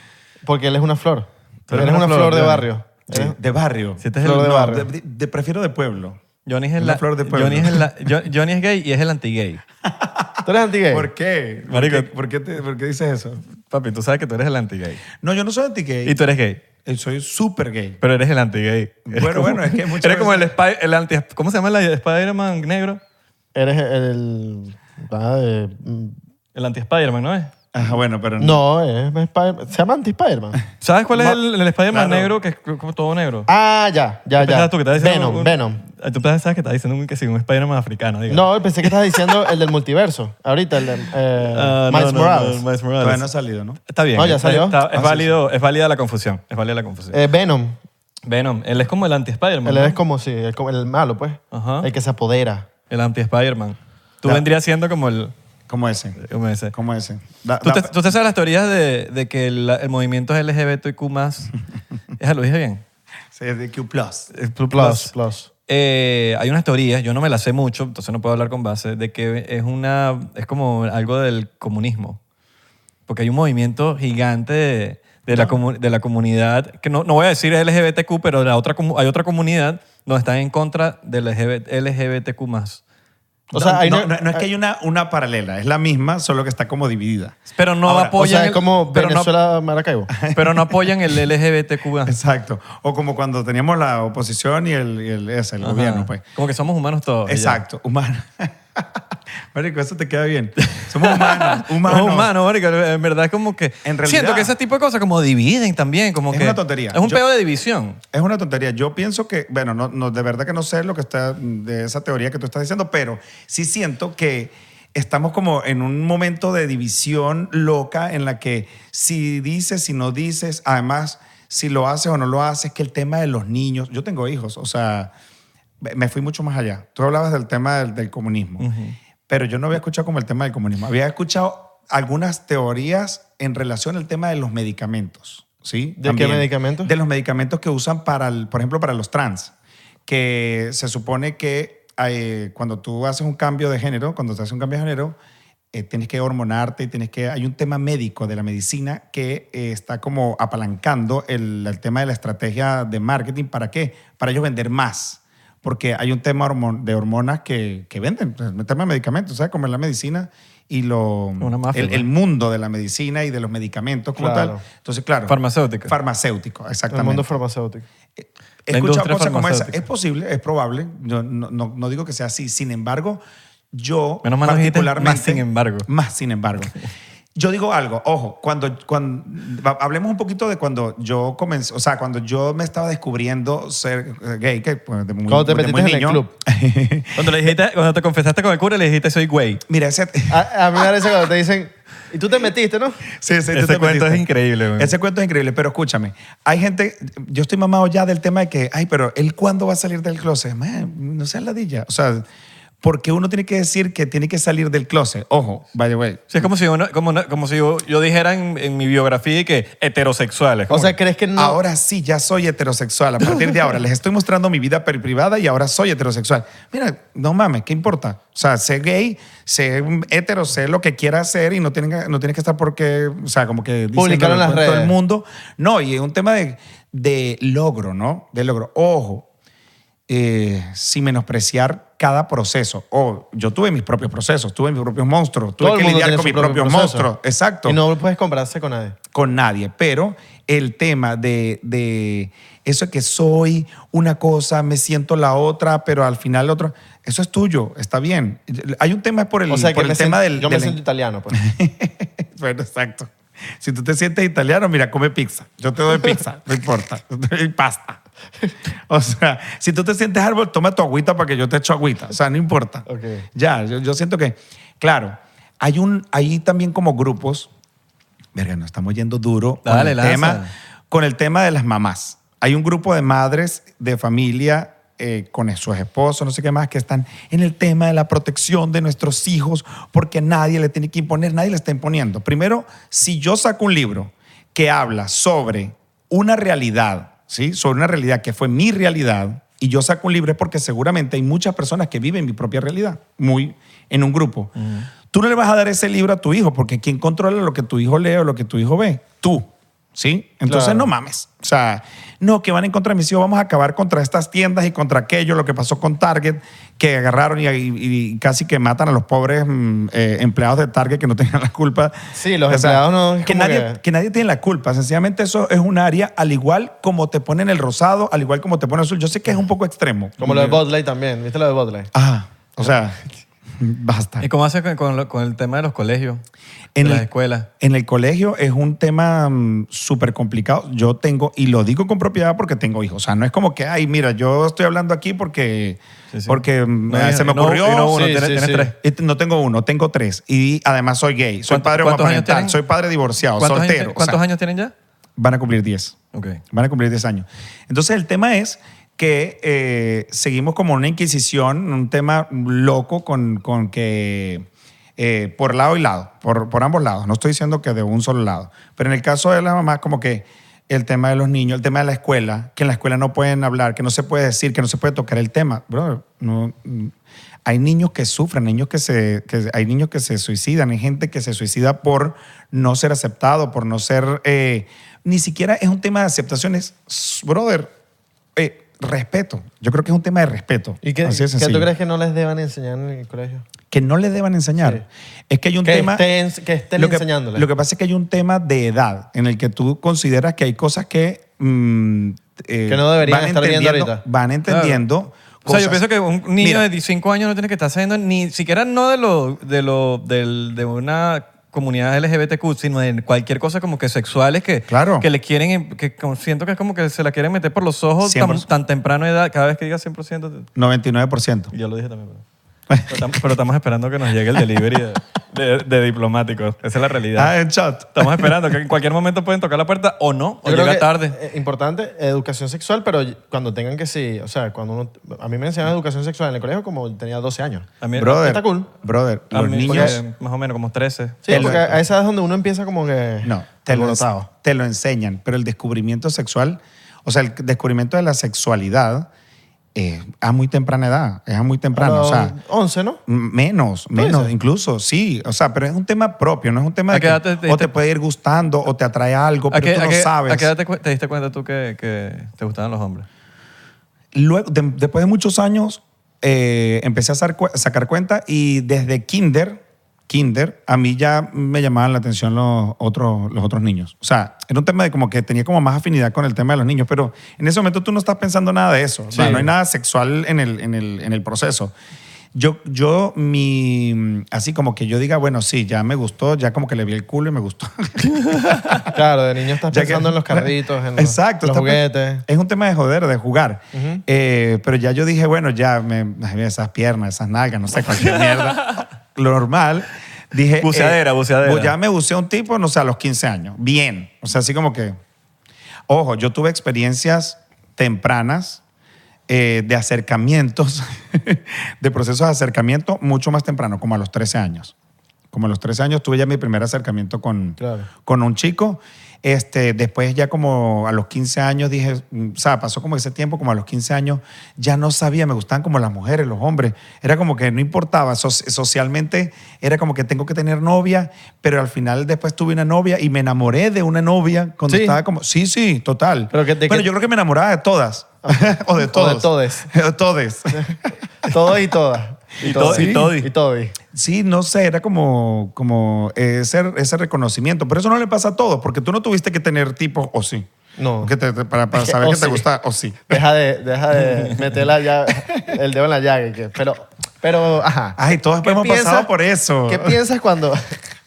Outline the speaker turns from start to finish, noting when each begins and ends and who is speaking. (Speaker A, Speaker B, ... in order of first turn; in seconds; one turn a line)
Speaker A: 0.5-3.4
Speaker B: 1.7-2.7
Speaker C: 3.1-6.2
Speaker B: 4.0-4.6
Speaker A: 4.2-4.9
Speaker B: 6.5-9.6
Speaker C: 6.8-7.9
Speaker C: 9.9-13.4
Speaker A: 10.4-11.1
Speaker B: 11.7-12.1
Speaker B: 13.6-15.0
Speaker C: 15.2-16.2
Speaker B: 16.1-16.6
Speaker C: 16.8-18.0
Speaker B: 18.0-23.0
Speaker C: 19.1-20.5
Speaker A: 23.5-26.2
Speaker B: 26.6-27.5
Speaker C: 27.7-28.6
Speaker A: 28.4-30.6
Speaker B: 30.8-33.5
Speaker C: 31.1-31.4
Speaker C: 31.9-32.3
Speaker A: 33.5-35.8
Speaker B: 34.4-39.5
Speaker A: 38.3-42.6
Speaker B: 41.5-43.3
Speaker C: 43.0-43.8
Speaker B: 43.9-47.2
Speaker A: 44.1-44.8
Speaker C: 44.9-45.3
Speaker A: 47.1-47.8
Speaker B: 48.3-50.0
Speaker A: 49.6-52.7
Speaker B: 51.5-51.9
Speaker B: 52.9-55.3
Speaker C: 55.7-57.9
Speaker B: 56.2-56.8
Speaker B: 57.6-61.5
Speaker B: 62.2-62.8
Speaker C: 63.3-64.3
Speaker B: 64.3-65.1
Speaker A: 64.7-65.5
Speaker B: 65.7-72.2
Speaker B: 73.1-82.8
Speaker C: 75.3-75.6
Speaker C: 83.5-88.2
Speaker A: 83.5-84.5
Speaker B: 87.6-89.3
Speaker A: 88.1-90.1
Speaker C: 90.2-90.8
Speaker B: 90.3-92.2
Speaker C: 92.1-96.2
Speaker B: 95.6-97.6
Speaker C: 97.3-99.0
Speaker C: 99.5-102.3
Speaker B: 100.6-108.0
Speaker C: 103.8-104.5
Speaker C: 106.3-107.2
Speaker C: 108.1-125.1
Speaker C: 125.8-128.7
Speaker B: 128.6-128.9
Speaker C: 129.3-139.5
Speaker A: 136.0-136.9
Speaker C: 140.1-145.2
Speaker C: 145.7-167.3
Speaker B: 161.4-162.1
Speaker A: 164.2-164.6
Speaker B: 165.3-165.9
Speaker A: 166.9-167.9
Speaker C: 168.2-173.2
Speaker B: 168.7-169.8
Speaker C: 173.7-176.8
Speaker B: 174.2-175.9
Speaker C: 177.4-187.3
Speaker A: 185.3-186.3
Speaker B: 187.2-189.6
Speaker C: 189.7-190.5
Speaker A: 190.3-193.0
Speaker C: 193.1-194.2
Speaker B: 193.5-194.9
Speaker C: 194.8-202.3
Speaker C: 202.8-206.2
Speaker B: 206.3-211.0
Speaker A: 210.7-211.6
Speaker C: 211.4-229.3
Speaker A: 224.0-224.9
Speaker C: 230.1-237.8
Speaker A: 235.6-237.1
Speaker A: 237.7-239.0
Speaker C: 239.1-250.8
Speaker A: 249.5-251.4
Speaker C: 251.3-258.0
Speaker C: 258.9-267.5
Speaker A: 262.9-263.3
Speaker C: 268.4-294.5
Speaker B: 269.7-270.5
Speaker B: 294.6-294.9
Speaker C: 295.1-320.6
Speaker A: 300.5-300.9
Speaker A: 312.1-313.8
Speaker A: 320.2-321.9
Speaker C: 321.9-323.0
Speaker C: 323.6-324.3
Speaker B: 324.2-326.2
Speaker C: 326.8-327.1
Speaker B: 326.8-327.5
Speaker C: 327.6-338.0
Speaker B: 336.1-338.8
Speaker A: 337.9-338.7
Speaker C: 338.8-344.2
Speaker B: 341.5-342.6
Speaker B: 343.4-344.7
Speaker C: 345.2-346.0
Speaker B: 346.1-346.4
Speaker C: 346.5-366.9
Speaker C: 367.5-377.7
Speaker C: 378.4-381.7
Speaker A: 380.8-383.4
Speaker C: 383.7-386.0
Speaker A: 385.6-387.5
Speaker C: 386.8-395.8
Speaker A: 392.7-394.0
Speaker B: 394.5-394.8
Speaker B: 395.4-410.5
Speaker C: 396.4-396.7
Speaker C: 404.7-405.1
Speaker C: 408.0-408.5
Speaker C: 410.6-411.5
Speaker B: 411.5-412.2
Speaker C: 412.7-413.0
Speaker B: 412.9-417.3
Speaker C: 417.2-418.4
Speaker B: 418.0-421.2
Speaker A: 420.4-428.7
Speaker B: 427.8-428.3
Speaker C: 428.0-430.0
Speaker B: 429.3-431.7
Speaker A: 429.7-430.0
Speaker A: 431.2-434.3
Speaker C: 431.3-431.7
Speaker C: 433.2-439.1
Speaker C: 439.8-442.4
Speaker A: 441.7-443.0
Speaker C: 443.1-450.5
Speaker A: 443.9-444.3
Speaker B: 446.9-447.7
Speaker B: 449.5-453.1
Speaker C: 454.1-471.7
Speaker A: 469.1-469.5
Speaker C: 472.4-478.9
Speaker A: 478.9-482.2
Speaker C: 479.7-495.0
Speaker A: 483.7-484.0
Speaker B: 487.9-488.9
Speaker B: 490.6-491.8
Speaker C: 495.9-498.6
Speaker C: 499.3-504.7
Speaker C: 505.3-530.8
Speaker A: 507.6-507.9
Speaker A: 524.7-525.0
Speaker A: 526.3-526.9
Speaker A: 528.2-529.7
Speaker A: 531.3-533.8
Speaker B: 532.4-533.3
Speaker C: 532.4-533.1
Speaker C: 533.9-540.5
Speaker A: 540.8-541.1
Speaker C: 541.0-543.2
Speaker A: 541.7-542.5
Speaker A: 543.1-549.1
Speaker C: 548.0-550.0
Speaker A: 549.7-550.8